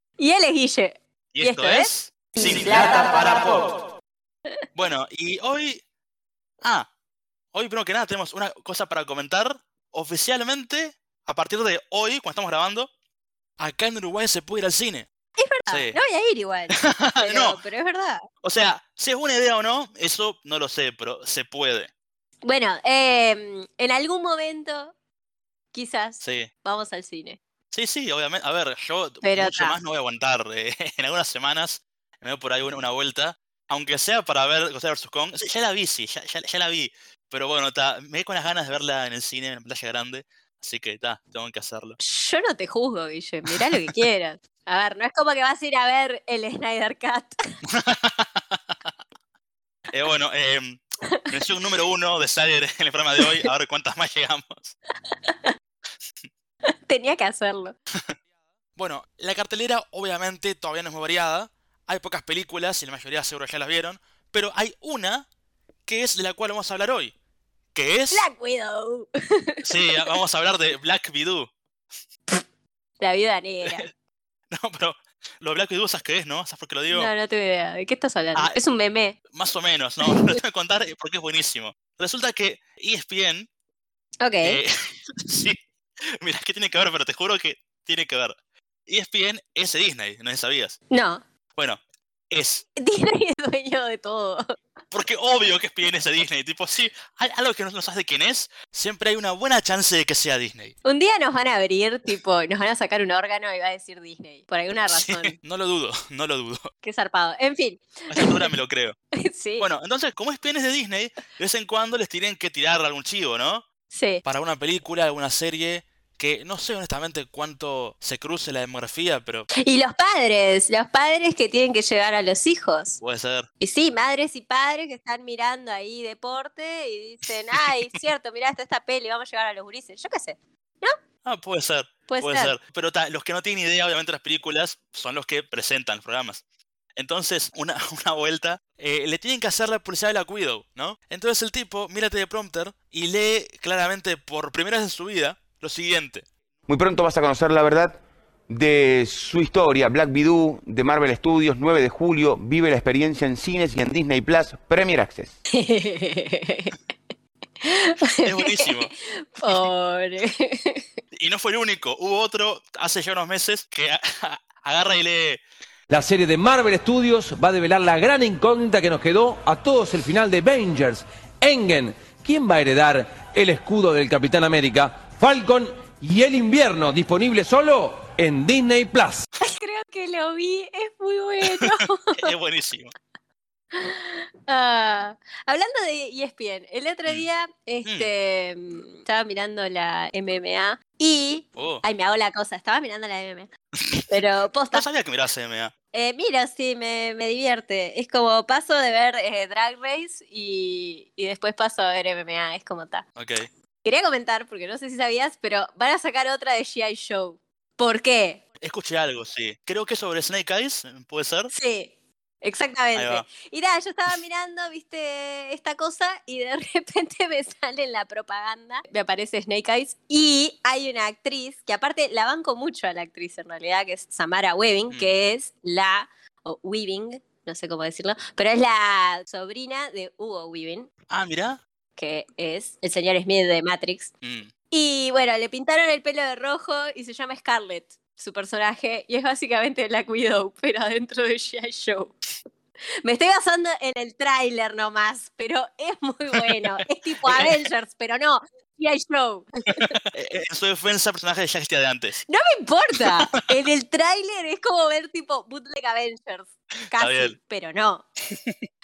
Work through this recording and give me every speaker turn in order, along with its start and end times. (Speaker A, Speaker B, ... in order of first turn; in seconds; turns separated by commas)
Speaker A: 0.2-3.2, Speaker B: 1.3-3.8, Speaker B: 4.7-5.8, Speaker B: 6.6-6.9, Speaker B: 7.5-12.9, Speaker B: 13.6-15.1, Speaker A: 15.4-18.2, Speaker B: 15.7-16.0, Speaker B: 16.7-17.6, Speaker B: 18.4-21.9, Speaker A: 22.4-24.9, Speaker A: 25.7-27.4, Speaker B: 26.2-26.5, Speaker B: 27.7-42.0, Speaker A: 29.2-29.8, Speaker A: 42.0-47.4, Speaker B: 43.5-43.9, Speaker B: 47.7-48.7, Speaker B: 49.9-54.7, Speaker A: 55.1-55.5, Speaker A: 56.6-57.8, Speaker B: 58.8-65.2, Speaker B: 65.9-67.1, Speaker B: 67.7-68.3, Speaker A: 68.1-69.7, Speaker B: 69.6-71.5, Speaker A: 73.0-73.9, Speaker B: 74.5-77.1, Speaker A: 76.9-79.2, Speaker B: 79.3-83.5, Speaker A: 80.0-80.4, Speaker A: 84.2-84.6, Speaker B: 84.4-85.6, Speaker B: 86.2-88.3, Speaker B: 88.9-90.8, Speaker A: 90.9-91.2, Speaker B: 91.5-92.6, Speaker A: 92.8-94.5, Speaker B: 94.9-100.7, Speaker A: 100.8-105.3, Speaker B: 104.9-106.7, Speaker A: 106.8-108.5, Speaker B: 108.1-109.0, Speaker A: 109.1-109.7, Speaker B: 109.6-113.6, Speaker A: 113.9-114.2, Speaker B: 114.2-119.5, Speaker A: 119.5-123.0, Speaker B: 123.0-123.5, Speaker A: 123.6-130.9, Speaker B: 131.2-136.4, Speaker A: 132.1-132.5, Speaker B: 137.0-146.3, Speaker C: 146.7-155.3, Speaker A: 155.5-156.7, Speaker A: 157.6-160.8, Speaker B: 158.2-158.9, Speaker B: 161.1-165.4, Speaker D: 165.9-179.2, Speaker A: 179.4-182.3, Speaker B: 181.5-182.9, Speaker A: 183.7-193.5, Speaker B: 187.8-188.1, Speaker B: 191.6-191.8, Speaker A: 194.1-194.8, Speaker B: 194.7-195.7, Speaker A: 195.9-203.0, Speaker B: 203.2-203.5, Speaker A: 203.8-208.4, Speaker B: 208.6-211.5, Speaker A: 211.5-211.9, Speaker A: 212.4-230.9, Speaker B: 212.9-213.2, Speaker B: 231.1-231.6, Speaker A: 232.0-234.1, Speaker B: 234.2-234.5, Speaker A: 234.7-242.2, Speaker A: 243.0-250.0, Speaker B: 246.4-247.7, Speaker B: 249.7-252.2, Speaker A: 252.3-258.0, Speaker B: 252.9-253.4, Speaker B: 256.9-257.4